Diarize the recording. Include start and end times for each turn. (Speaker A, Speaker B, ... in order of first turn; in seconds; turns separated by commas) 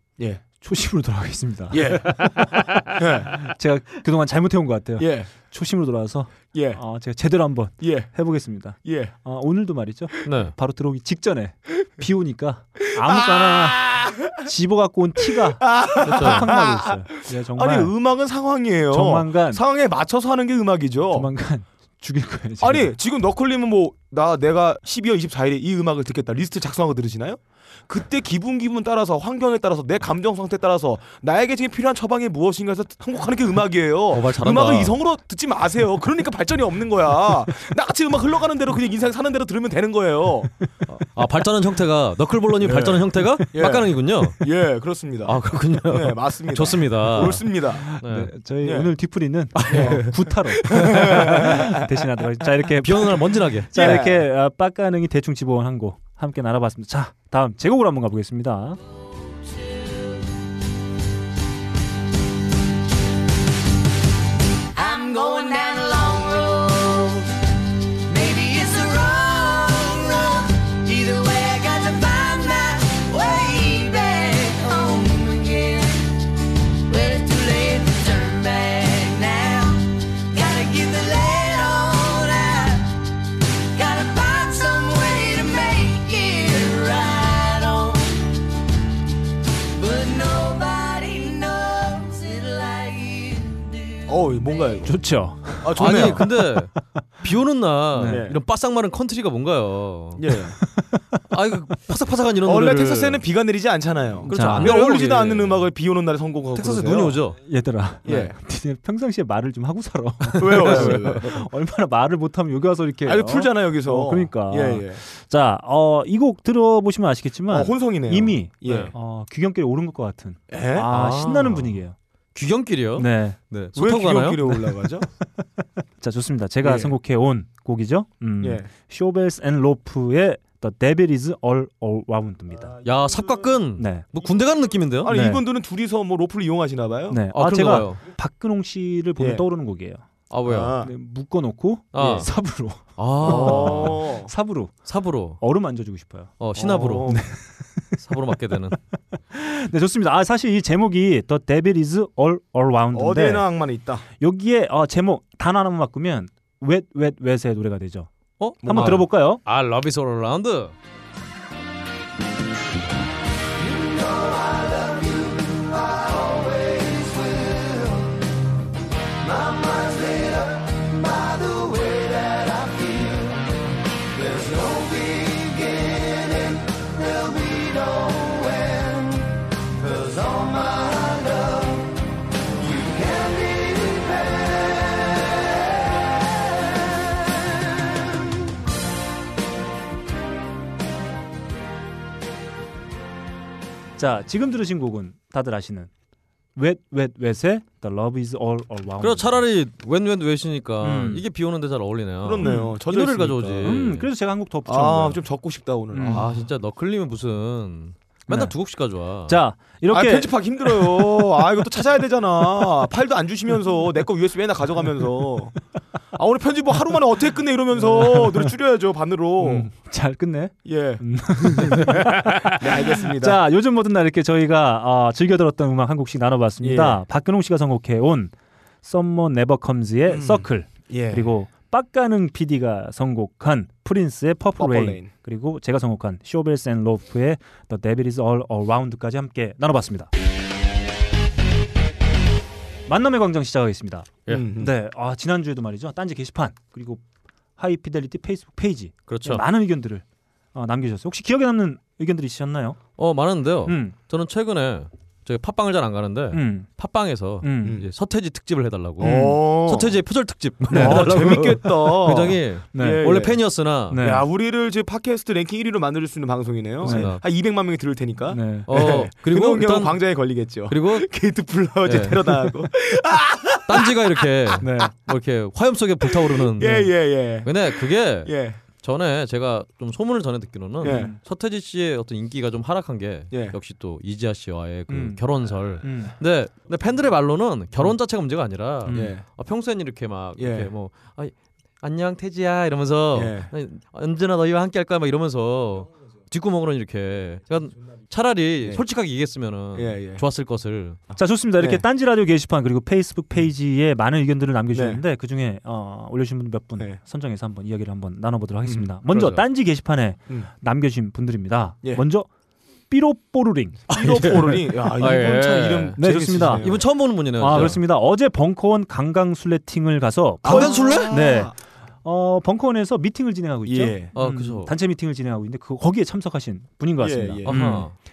Speaker A: 0.6-17.9, Speaker B: 1.7-3.4, Speaker B: 5.0-5.3, Speaker B: 6.5-6.8, Speaker B: 7.8-8.1, Speaker B: 8.8-9.1, Speaker C: 10.2-10.5, Speaker B: 13.1-14.4, Speaker B: 15.3-21.3, Speaker C: 16.0-16.5, Speaker A: 18.9-19.6, Speaker A: 21.1-22.9, Speaker B: 22.6-40.5, Speaker C: 34.1-35.0, Speaker C: 40.9-44.4, Speaker B: 42.6-47.9, Speaker C: 45.2-48.3, Speaker A: 47.8-58.8, Speaker B: 48.6-48.9, Speaker C: 49.6-50.1, Speaker B: 49.7-51.7, Speaker C: 50.7-51.5, Speaker C: 52.8-54.0, Speaker B: 53.7-54.2, Speaker D: 64.8-67.3, Speaker D: 68.1-76.0, Speaker D: 76.9-79.8, Speaker D: 80.3-82.9, Speaker D: 83.8-88.1, Speaker D: 89.8-93.6, Speaker B: 94.0-96.3, Speaker A: 94.8-96.4, Speaker C: 95.8-100.3, Speaker A: 97.9-98.2, Speaker B: 98.0-98.4, Speaker B: 100.2-100.6, Speaker C: 101.3-103.2, Speaker B: 102.4-107.2, Speaker C: 104.2-105.7, Speaker A: 104.3-105.0, Speaker C: 106.5-107.4, Speaker A: 107.4-121.9, Speaker B: 108.0-108.3, Speaker B: 110.4-111.3, Speaker C: 110.4-111.3, Speaker B: 113.0-115.0, Speaker B: 117.5-118.9, Speaker C: 118.6-118.9, Speaker B: 120.5-120.9, Speaker C: 120.9-121.8, Speaker C: 122.3-124.5, Speaker A: 123.0-123.4, Speaker B: 123.7-125.0, Speaker A: 126.0-132.8, Speaker B: 126.6-127.0, Speaker B: 128.4-128.7, Speaker C: 132.8-135.1, Speaker A: 133.8-134.1, Speaker B: 135.0-137.2, Speaker A: 135.1-135.4, Speaker A: 137.1-140.0, Speaker C: 137.3-138.0, Speaker B: 139.2-139.5, Speaker C: 140.3-140.7, Speaker B: 140.4-140.9, Speaker A: 140.8-144.8, Speaker C: 141.9-142.3, Speaker C: 143.0-144.0, Speaker B: 143.2-144.3, Speaker C: 144.8-145.4, Speaker A: 145.4-146.4, Speaker C: 146.4-147.1, Speaker B: 146.5-147.2, Speaker A: 147.1-147.4, Speaker C: 148.0-148.8, Speaker A: 149.3-153.5, Speaker B: 152.9-154.1, Speaker A: 154.2-158.1, Speaker C: 158.4-160.7, Speaker B: 158.6-159.0, Speaker A: 158.6-159.4, Speaker A: 194.0-195.9, Speaker A: 196.6-199.4, Speaker C: 199.0-204.1, Speaker A: 200.8-201.2, Speaker B: 202.2-203.8, Speaker A: 202.4-202.7, Speaker A: 203.6-205.2, Speaker B: 204.7-206.4, Speaker A: 205.9-206.3, Speaker C: 206.1-209.4, Speaker A: 208.3-208.5, Speaker A: 209.2-211.2, Speaker B: 209.9-215.5, Speaker B: 216.1-219.7, Speaker A: 217.8-218.5, Speaker A: 219.4-240.1, Speaker B: 220.6-223.4, Speaker B: 226.6-227.0, Speaker B: 230.1-231.3, Speaker B: 234.6-235.1, Speaker A: 242.9-247.0, Speaker B: 244.3-244.7, Speaker A: 247.6-250.0, Speaker C: 249.1-249.4, Speaker A: 250.5-252.8, Speaker C: 253.0-264.0, Speaker A: 253.7-253.9, Speaker A: 256.3-256.7, Speaker A: 257.4-257.8, Speaker B: 259.0-260.0, Speaker A: 259.0-259.4, Speaker B: 260.7-263.4, Speaker A: 260.7-261.1, Speaker A: 262.7-263.0, Speaker A: 263.9-264.2, Speaker B: 263.9-274.6, Speaker A: 266.8-267.1, Speaker C: 266.8-267.2, Speaker A: 268.3-268.8, Speaker C: 268.7-271.1, Speaker C: 271.8-272.5, Speaker C: 273.6-301.0, Speaker A: 274.6-274.9, Speaker B: 276.0-278.6, Speaker B: 280.8-281.1, Speaker A: 280.8-281.2, Speaker B: 283.3-283.6, Speaker A: 284.9-285.2, Speaker A: 285.8-286.1, Speaker A: 288.9-289.1, Speaker B: 288.9-289.2, Speaker B: 290.4-290.7, Speaker B: 293.1-293.5, Speaker B: 299.7-300.2, Speaker A: 301.1-312.3, Speaker B: 301.6-301.8, Speaker B: 304.7-305.0, Speaker C: 309.1-309.4, Speaker A: 312.9-313.8, Speaker B: 313.9-316.8, Speaker C: 313.9-317.8, Speaker A: 316.0-316.7, Speaker A: 317.4-327.9, Speaker B: 320.4-321.5, Speaker C: 320.4-321.1, Speaker B: 323.6-324.2, Speaker C: 324.1-324.7, Speaker B: 327.0-327.6, Speaker C: 327.4-327.9